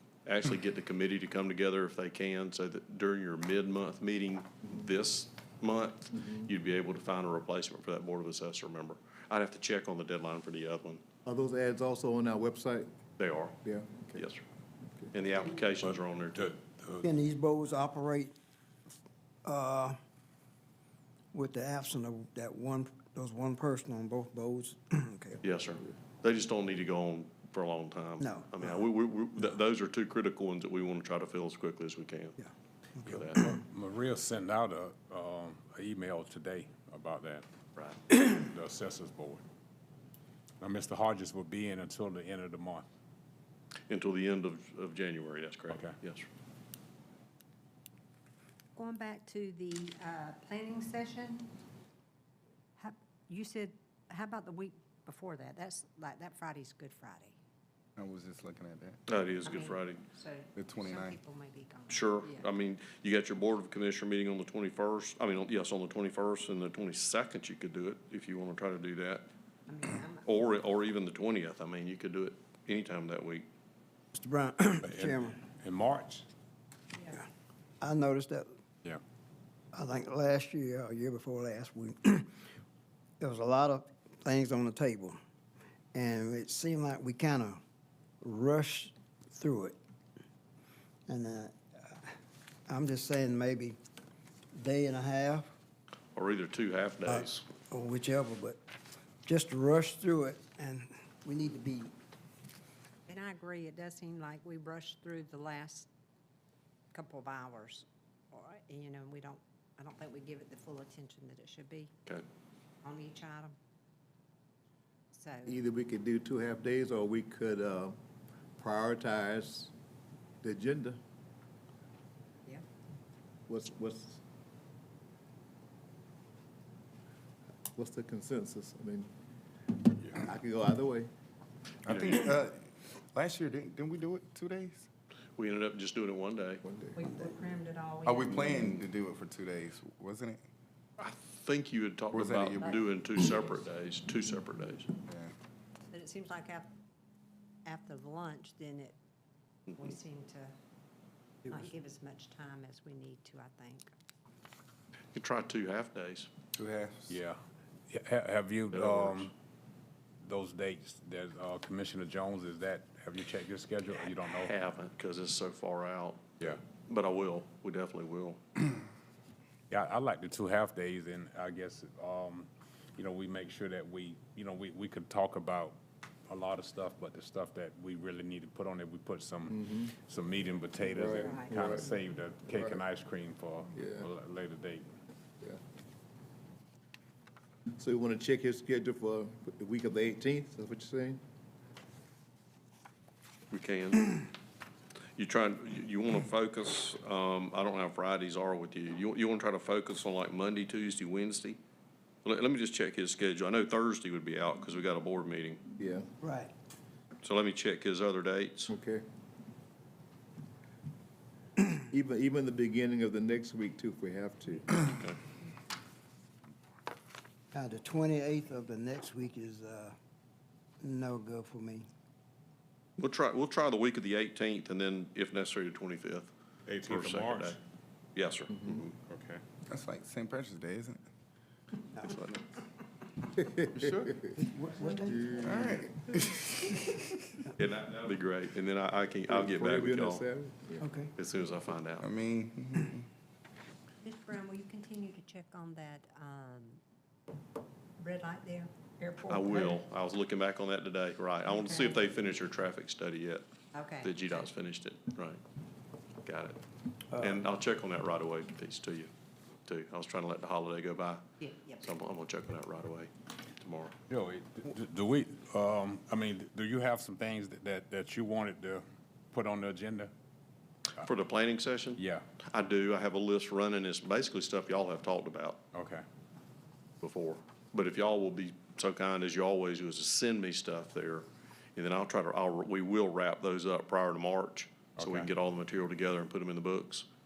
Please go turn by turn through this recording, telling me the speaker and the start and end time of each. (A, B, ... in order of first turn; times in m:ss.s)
0:00.2-0:11.0 A
0:06.1-0:06.5 B
0:11.2-0:12.9 B
0:13.2-0:13.6 A
0:13.6-0:14.2 B
0:14.1-0:14.4 A
0:15.1-0:16.5 A
0:16.4-0:17.0 C
0:17.0-0:18.3 D
0:19.4-0:20.0 D
0:21.3-0:25.4 D
0:25.4-0:32.4 A
0:28.2-0:28.7 D
0:32.4-0:33.6 D
0:33.0-0:33.4 A
0:33.4-0:37.4 C
0:38.1-0:39.4 C
0:40.6-0:42.8 C
0:43.9-0:46.2 A
0:45.7-0:46.0 C
0:48.8-0:51.5 E
0:52.8-0:57.4 E
0:58.0-0:59.0 F
0:59.1-1:00.0 A
0:59.4-1:02.5 E
1:00.6-1:01.2 F
1:01.9-1:09.2 A
1:09.7-1:10.5 E
1:10.2-1:13.4 A
1:14.1-1:15.4 D
1:14.8-1:16.3 C
1:17.8-1:18.5 D
1:19.7-1:22.3 D
1:23.2-1:25.2 D
1:25.9-1:27.6 D
1:28.2-1:29.8 D
1:31.1-1:32.1 D
1:32.7-1:33.8 D
1:34.5-1:35.5 D
1:36.1-1:37.4 A
1:37.0-1:38.6 D
1:39.2-1:41.9 D
1:43.1-1:45.9 E
1:46.9-1:51.9 E
1:52.8-1:53.5 E
1:55.1-1:55.6 E
1:55.4-1:58.0 B
1:58.6-1:59.7 B
2:00.4-2:01.0 B
2:03.5-2:04.2 B
2:07.8-2:09.1 B
2:10.0-2:11.1 B
2:11.8-2:14.9 F
2:15.4-2:16.6 A
2:16.6-2:17.2 B
2:16.9-2:18.8 E
2:18.0-2:20.4 F
2:21.0-2:24.9 A
2:22.1-2:22.8 F
2:25.0-2:25.3 F
2:25.9-2:26.7 E
2:27.6-2:29.0 E
2:29.7-2:30.5 E
2:31.5-2:33.9 E
2:35.1-2:36.3 A
2:36.5-2:37.2 F
2:37.1-2:37.4 C
2:37.9-2:39.3 C
2:38.7-2:39.2 A
2:40.2-2:44.5 C
2:44.3-2:48.4 A
2:49.7-3:04.9 C
2:59.5-2:59.9 B
3:00.9-3:01.9 B
3:01.2-3:01.6 E
3:02.5-3:02.8 B
3:03.7-3:04.0 B
3:07.8-3:11.2 B
3:13.5-3:14.3 A
3:15.2-3:21.6 A
3:22.2-3:25.6 A
3:25.8-3:26.1 B
3:26.2-3:26.5 D
3:27.2-3:28.7 A
3:28.7-3:29.0 B
3:31.8-3:34.7 B
3:34.8-3:35.2 A
3:37.5-3:40.0 D
3:40.8-3:41.9 D
3:43.0-3:46.3 A
3:46.7-3:47.6 C
3:46.8-3:47.6 A
3:48.1-3:48.9 A
3:49.0-3:49.4 C
3:49.7-3:51.0 F
3:52.0-3:52.3 A
3:53.4-3:53.9 B
3:53.8-3:54.2 F
3:54.3-3:55.4 D
3:55.3-3:55.7 B
3:55.4-3:57.0 F
3:57.6-4:00.2 A
3:59.3-4:00.9 B
4:00.8-4:01.1 D
4:01.2-4:02.1 A
4:02.0-4:03.0 F
4:04.0-4:06.8 E
4:08.0-4:09.8 E
4:09.3-4:13.4 A
4:11.5-4:12.0 E
4:13.7-4:14.5 E
4:14.0-4:15.4 A
4:16.2-4:16.6 A
4:17.2-4:19.1 A
4:19.6-4:23.9 A
4:21.4-4:21.9 E
4:24.1-4:30.1 C
4:31.0-4:35.6 A
4:32.0-4:32.3 C
4:35.7-4:36.0 C
4:37.0-4:47.0 A
4:45.0-4:45.3 C